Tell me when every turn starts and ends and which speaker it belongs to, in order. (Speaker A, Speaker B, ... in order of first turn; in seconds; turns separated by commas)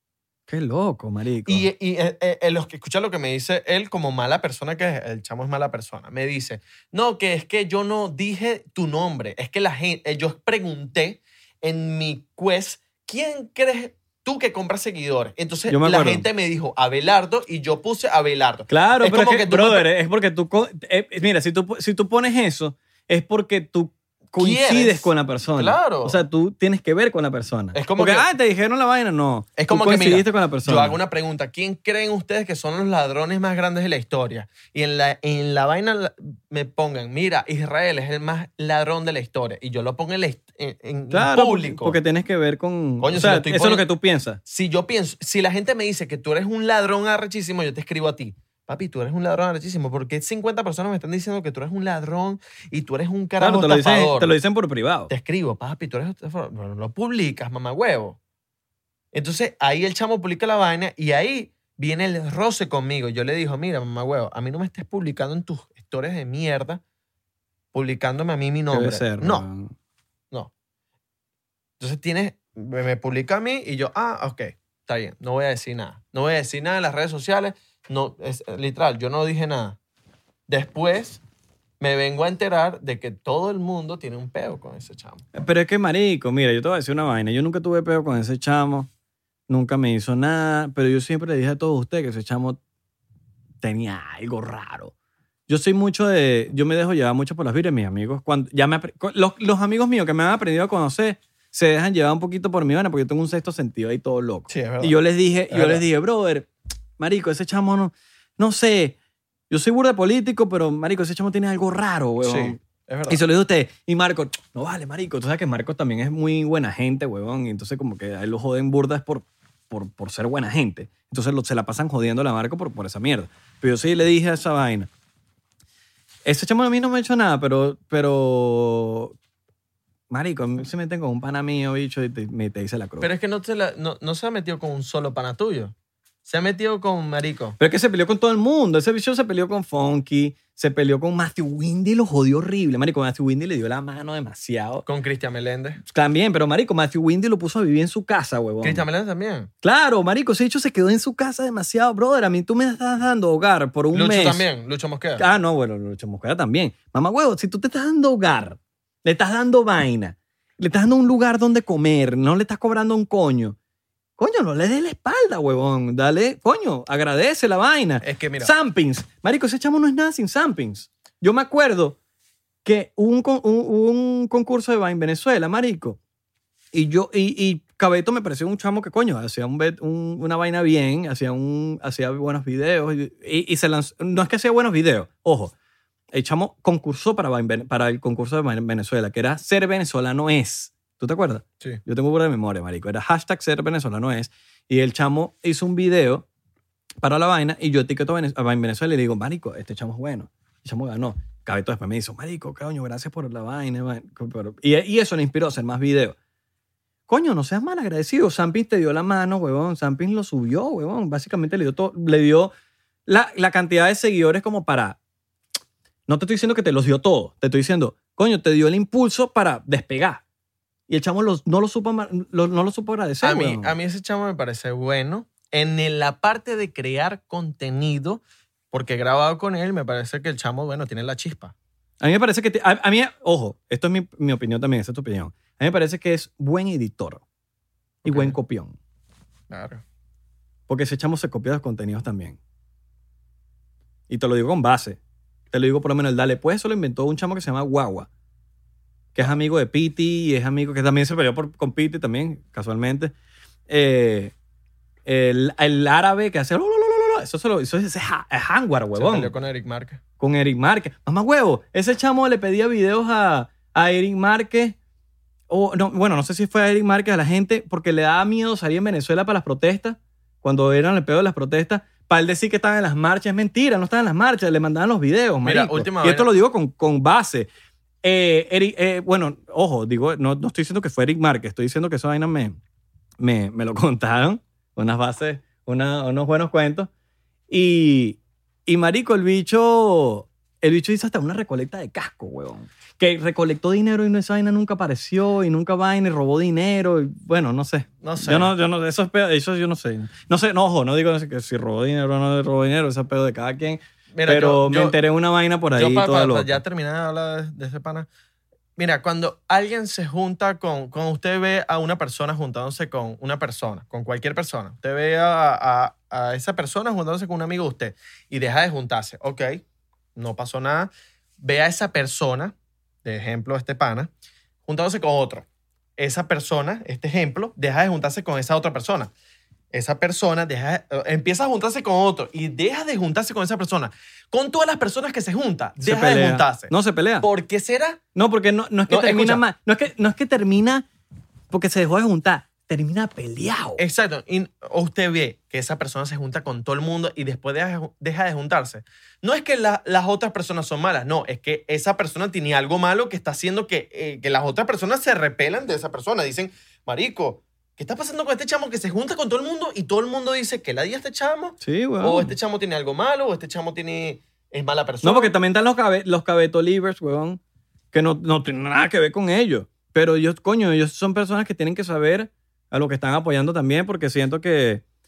Speaker A: 0.5-1.7, Speaker B: 1.5-19.9, Speaker A: 15.7-16.3, Speaker A: 18.7-31.0, Speaker B: 24.4-26.2, Speaker B: 27.7-28.3, Speaker B: 29.6-42.0, Speaker A: 41.1-44.4, Speaker B: 43.0-43.9, Speaker B: 44.5-54.3, Speaker A: 53.4-55.1, Speaker B: 55.1-58.2, Speaker B: 59.1-66.8, Speaker B: 67.7-69.5, Speaker A: 68.7-69.7, Speaker B: 71.8-79.8, Speaker B: 80.5-81.2, Speaker B: 81.8-85.2, Speaker A: 85.3-88.9, Speaker A: 89.5-92.6, Speaker A: 93.6-94.9, Speaker A: 95.5-109.0, Speaker B: 104.5-105.8, Speaker A: 109.5-124.9, Speaker B: 112.2-113.2, Speaker A: 126.2-129.2, Speaker A: 130.1-133.1, Speaker B: 133.0-135.7, Speaker B: 136.2-137.6, Speaker A: 137.6-144.8, Speaker B: 144.9-145.8, Speaker A: 145.8-148.8, Speaker B: 148.6-149.5, Speaker A: 149.6-154.4, Speaker B: 153.9-155.2, Speaker A: 155.2-163.6, Speaker A: 164.2-172.0, Speaker B: 168.0-168.5, Speaker A: 172.7-176.0, Speaker A: 176.7-185.5, Speaker A: 186.1-196.3, Speaker A: 197.0-206.2, Speaker A: 207.1-212.5, Speaker A: 213.1-215.0, Speaker A: 216.1-220.2, Speaker A: 220.9-223.7, Speaker B: 223.2-231.5, Speaker A: 232.0-237.2, Speaker B: 238.0-238.4, Speaker A: 238.1-238.8, Speaker B: 239.5-239.8, Speaker A: 240.7-242.4, Speaker A: 244.1-245.0, Speaker A: 245.5-248.1, Speaker A: 249.2-253.1, Speaker A: 253.7-254.3, Speaker A: 255.1-259.3, Speaker B: 258.9-260.0, Speaker A: 260.2-264.8, Speaker A: 265.5-277.5, Speaker B: 275.4-276.3, Speaker A: 278.0-282.6, Speaker A: 283.2-286.9, Speaker A: 287.5-306.6, Speaker B: 298.0-298.5, Speaker B: 304.1-305.0, Speaker B: 305.7-308.1, Speaker B: 308.8-319.6, Speaker B: 320.2-324.1, Speaker B: 324.6-329.1, Speaker B: 329.7-338.0, Speaker A: 335.8-337.3, Speaker A: 338.1-340.9, Speaker B: 338.9-339.4, Speaker A: 341.5-343.8, Speaker B: 343.8-365.3, Speaker A: 361.6-362.3, Speaker A: 365.0-367.4, Speaker A: 367.9-374.8